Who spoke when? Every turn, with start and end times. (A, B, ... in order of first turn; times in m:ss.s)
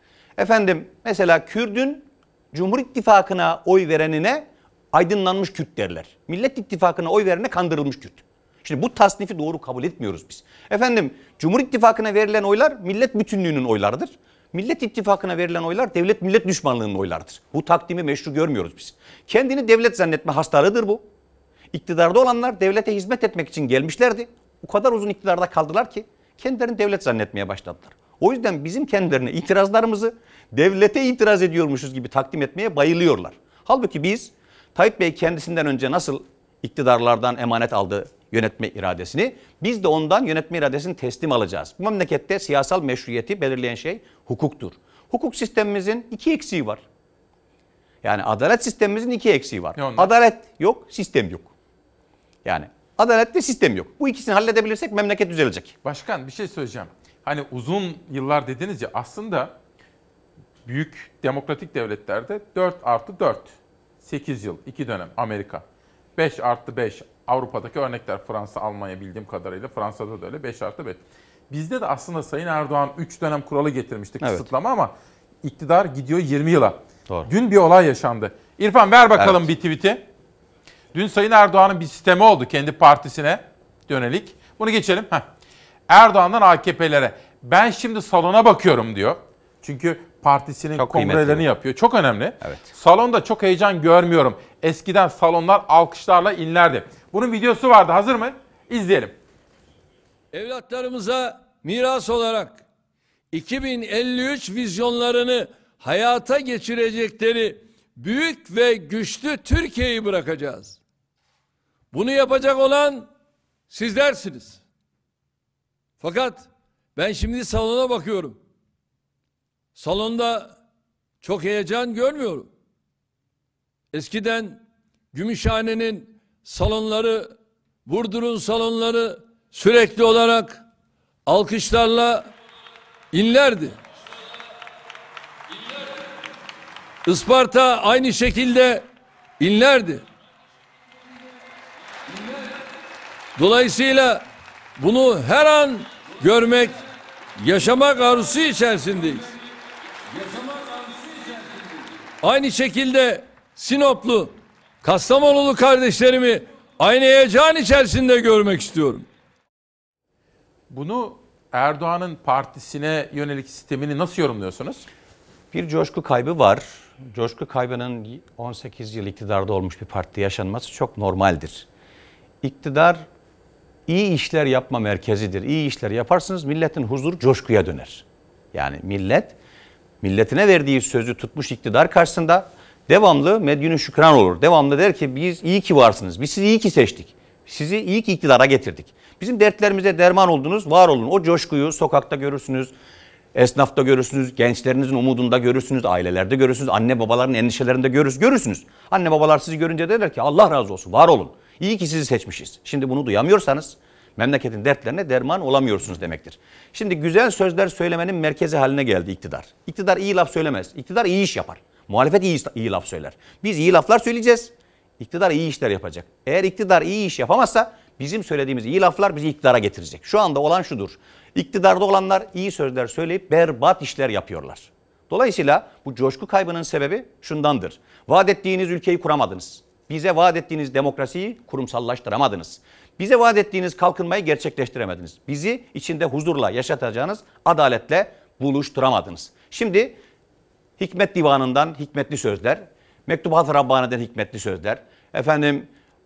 0:00.4-0:21.0 A
0:21.7-0:46.8 A
0:48.0-0:51.5 A
0:49.8-0:50.1 B
0:52.4-0:55.7 A
0:55.8-0:59.5 B
1:00.7-1:05.6 B
1:06.2-1:11.0 B
1:11.5-1:20.0 B
1:14.2-1:14.5 A
1:19.2-1:19.5 A
1:20.9-1:25.2 B
1:25.9-1:39.2 B
1:30.8-1:31.4 A
1:32.4-1:32.7 A
1:40.3-1:42.6 C
1:43.3-1:50.8 C
1:51.9-1:53.1 C
1:53.7-1:54.6 C
1:56.0-1:58.4 C
1:59.8-2:00.6 C
2:01.2-2:02.5 C
2:03.9-2:04.6 C
2:05.1-2:07.3 C
2:07.9-2:10.6 C
2:11.3-2:12.3 C
2:13.1-2:13.8 C
2:17.0-2:18.9 C
2:19.4-2:20.0 C
2:22.1-2:22.5 C
2:23.4-2:24.2 C
2:24.8-2:26.8 C
2:27.4-2:29.4 C
2:30.2-2:31.4 C
2:32.2-2:39.1 C
2:40.7-2:44.8 B
2:45.5-2:51.7 A
2:52.4-2:53.1 A
2:53.9-2:59.4 A
3:00.0-3:12.7 A
3:13.4-4:00.0 A
4:00.8-4:05.7 A